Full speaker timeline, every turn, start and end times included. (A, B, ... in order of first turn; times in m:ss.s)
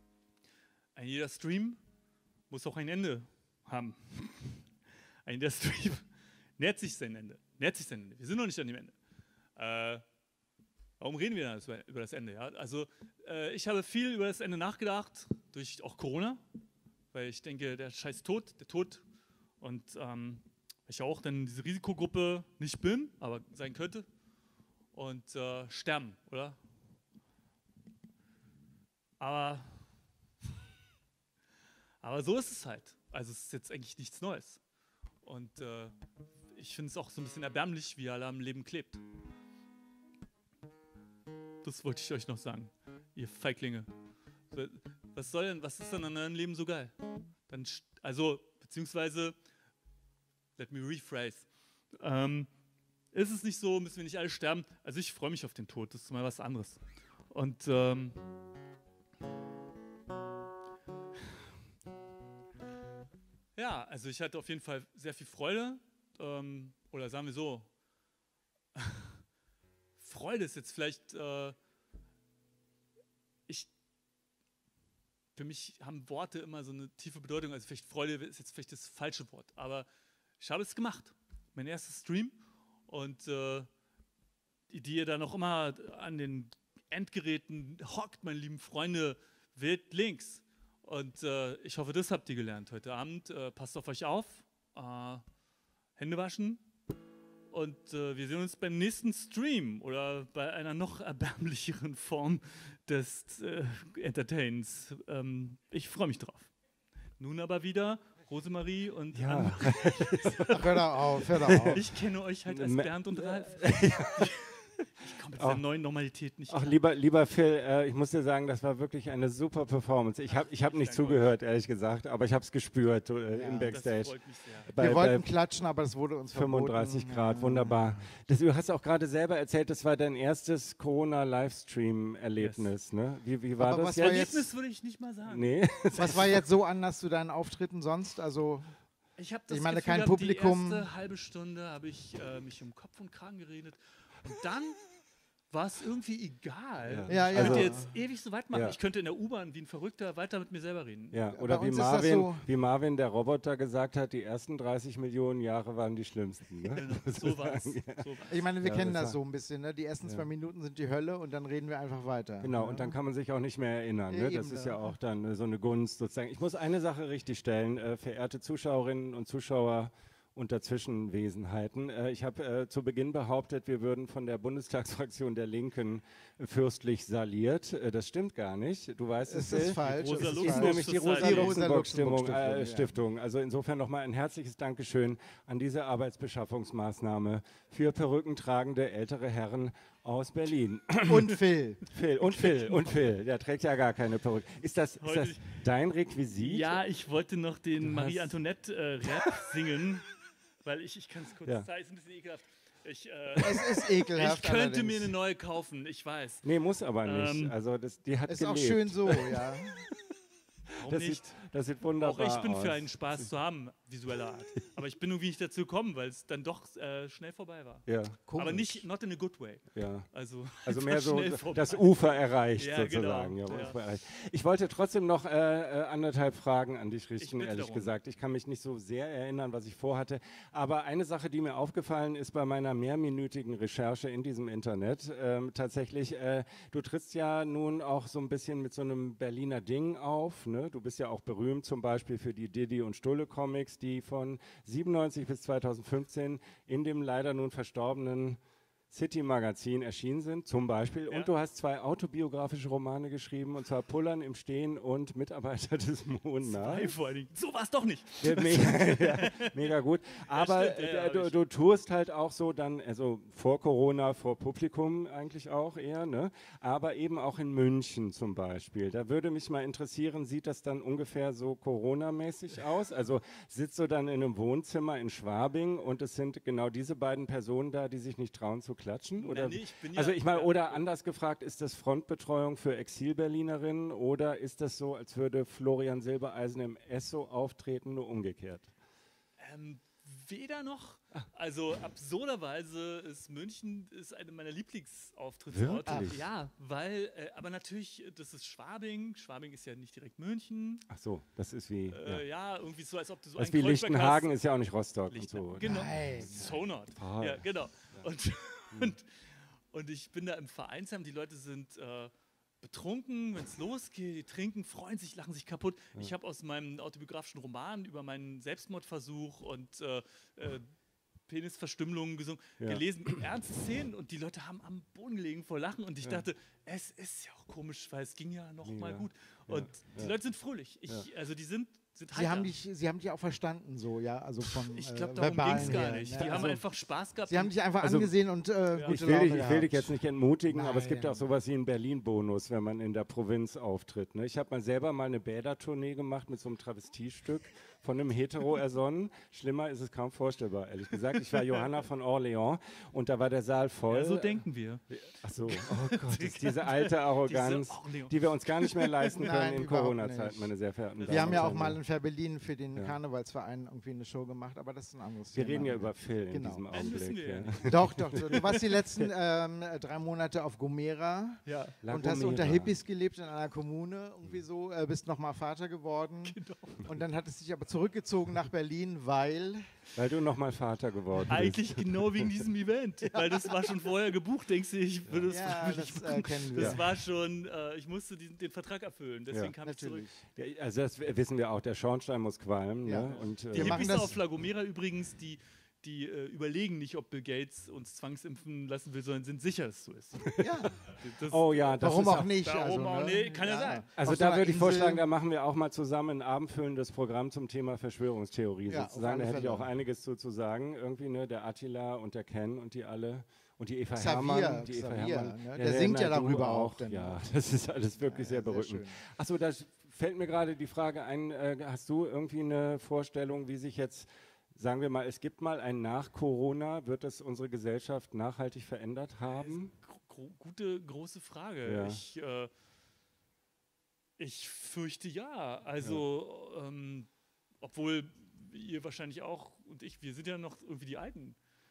0:01.0-0:01.8 A
0:02.5-0:04.6 A
0:05.3-0:06.1 A
0:06.6-0:09.0 A
0:09.6-0:10.0 A
0:11.0-0:16.4 A
0:17.1-0:19.0 A
0:19.6-0:24.1 A
0:24.9-0:26.6 A
0:29.2-0:29.8 A
0:32.0-0:34.6 A
0:35.2-0:36.0 A
0:36.5-0:39.0 A
0:41.6-0:43.9 A
0:44.5-0:46.9 A
0:47.5-0:49.4 A
0:50.6-0:51.5 A
0:52.0-0:52.5 A
0:53.1-0:58.2 A
1:03.6-1:07.7 A
1:08.8-1:09.2 A
1:10.0-1:11.6 A
1:15.4-1:19.9 A
1:20.4-1:22.4 A
1:22.9-1:23.7 A
1:24.7-1:35.2 A
1:36.0-1:36.6 A
1:37.5-1:46.5 A
1:47.2-1:50.6 A
1:49.1-1:50.7 B
1:50.5-1:51.8 C
1:51.4-1:51.8 B
1:51.7-1:56.8 A
1:52.5-1:54.5 B
1:55.4-1:55.6 B
1:56.5-2:04.2 B
2:00.3-2:01.3 A
2:03.3-2:03.7 C
2:03.7-2:04.7 A
2:04.7-2:05.3 B
2:04.8-2:07.8 C
2:06.3-2:14.4 B
2:12.4-2:12.7 A
2:13.6-2:14.4 C
2:14.0-2:15.6 A
2:15.3-2:16.4 B
2:16.0-2:18.7 C
2:19.2-2:24.8 A
2:19.5-2:20.9 C
2:25.5-2:31.2 A
2:26.8-2:27.8 B
2:27.1-2:27.9 C
2:28.5-2:28.8 B
2:31.1-2:38.1 B
2:31.3-2:32.4 C
2:36.7-2:38.4 A
2:38.3-2:43.0 C
2:38.6-2:39.2 B
2:42.4-3:16.8 B
2:44.1-2:44.9 C
2:59.3-3:02.9 C
2:59.8-3:01.6 A
3:11.1-3:11.9 C
3:12.2-3:12.9 A
3:15.0-3:15.4 A
3:16.4-3:20.1 A
3:17.8-3:18.4 B
3:20.6-3:26.4 A
3:23.4-3:25.2 C
3:26.4-3:29.4 B
3:27.0-3:27.5 A
3:28.3-3:29.9 C
3:30.7-3:31.4 A
3:30.8-3:33.3 B
3:32.0-3:41.9 A
3:37.9-3:38.2 B
3:38.3-3:38.8 C
3:39.8-4:08.4 B
3:42.6-3:43.8 A
3:47.2-3:47.9 A
4:08.9-4:16.9 B
4:16.4-4:19.7 A
4:18.2-4:48.7 B
4:20.3-4:21.4 A
4:39.2-4:40.8 A
4:49.4-5:00.9 A
4:55.5-4:56.3 B
4:55.9-4:56.2 C
5:00.9-5:02.2 B
5:01.9-5:04.4 A
5:03.4-5:07.4 B
5:05.1-5:09.1 A
5:05.6-5:06.4 C
5:09.7-5:20.7 A
5:21.3-5:32.5 A
5:28.6-5:30.1 B
5:32.1-5:36.6 C
5:34.5-5:37.5 A
5:35.6-5:36.6 B
5:37.3-5:40.0 C
5:37.8-5:38.1 B
5:38.7-5:39.0 A
5:38.9-6:01.8 B
5:40.5-5:41.2 C
5:53.9-5:54.8 A
5:55.5-5:59.2 A
5:59.1-6:00.5 C
6:01.0-6:01.5 A
6:01.1-6:06.7 C
6:05.3-6:09.1 B
6:06.7-6:08.5 A
6:07.6-6:19.7 C
6:11.5-6:11.8 A
6:11.8-6:12.7 B
6:16.2-6:16.8 A
6:20.0-6:22.4 B
6:21.3-6:30.1 A
6:25.3-6:26.8 C
6:29.6-6:30.2 C
6:30.4-6:34.2 B
6:32.8-6:34.2 C
6:33.5-6:40.3 A
6:40.4-6:40.8 C
6:40.9-6:41.8 A
6:41.2-6:42.3 B
6:41.8-6:45.0 C
6:42.4-6:43.8 A
6:44.0-7:09.7 B
6:48.7-6:49.7 C
6:53.9-6:57.2 C
6:58.1-6:59.0 C
7:09.4-7:12.5 A
7:11.7-7:12.0 B
7:14.2-7:17.1 A
7:17.6-7:21.4 A